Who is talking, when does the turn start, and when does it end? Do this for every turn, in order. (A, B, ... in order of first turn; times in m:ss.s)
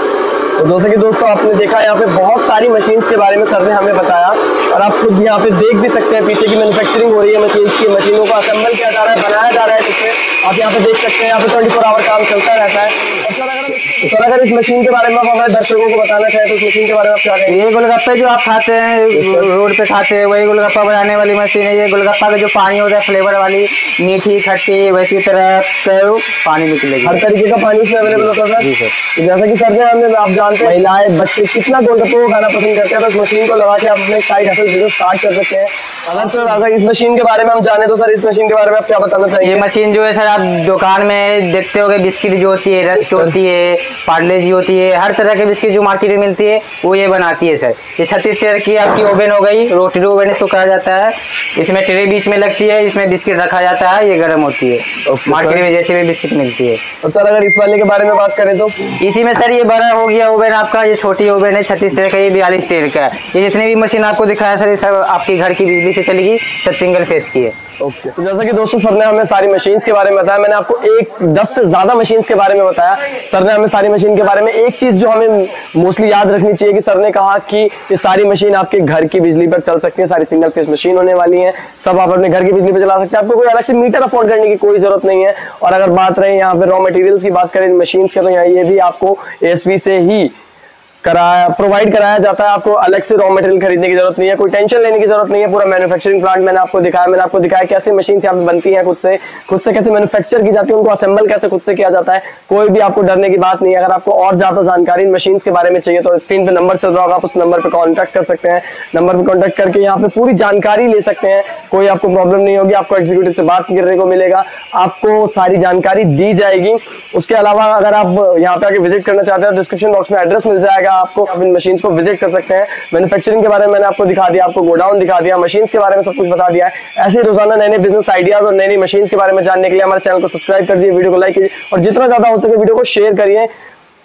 0:00.6-0:17.6 A
0:17.5-0:27.2 B
0:19.1-0:19.5 A
0:27.0-0:39.7 A
0:28.1-0:29.0 B
0:39.4-0:56.8 B
0:42.9-0:43.4 A
0:55.0-0:55.7 A
0:57.0-0:58.9 A
0:58.9-1:07.5 B
1:07.8-1:30.3 A
1:31.0-2:13.5 A